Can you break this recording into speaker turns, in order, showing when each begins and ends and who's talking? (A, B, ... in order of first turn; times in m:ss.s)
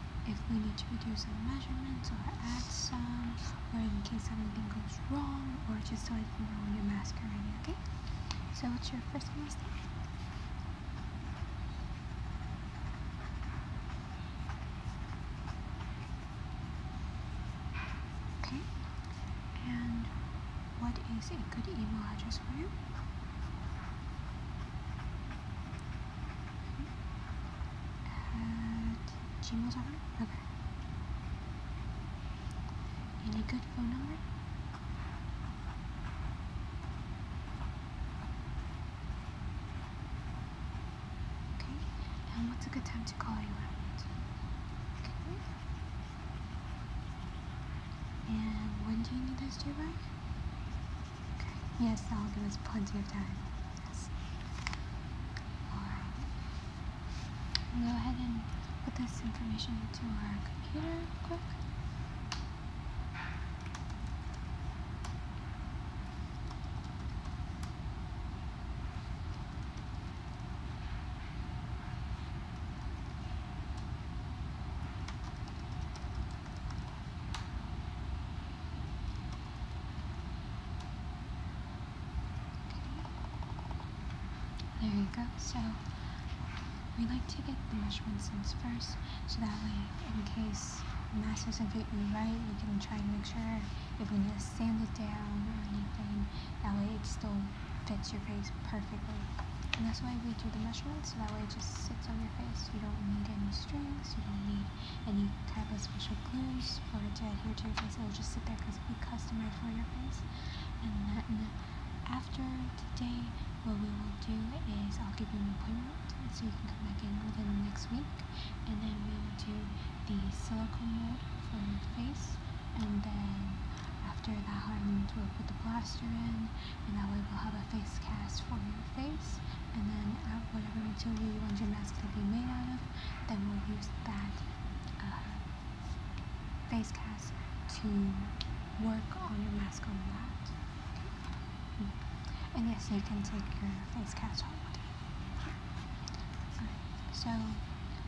0:00.2-0:09.8 A
0:18.4-0:18.8 A
0:19.5-0:20.2 A
0:20.7-0:22.8 A
0:28.0-0:30.5 A
0:33.2-0:34.2 A
0:41.6-0:44.1 A
0:45.0-0:45.4 A
0:48.2-0:50.1 A
0:51.4-0:54.2 A
0:55.7-0:56.3 A
0:57.7-1:01.6 A
1:22.6-1:23.1 A
1:24.8-1:26.0 A
1:26.9-2:15.5 A
2:16.7-2:24.9 A
2:26.6-2:27.7 A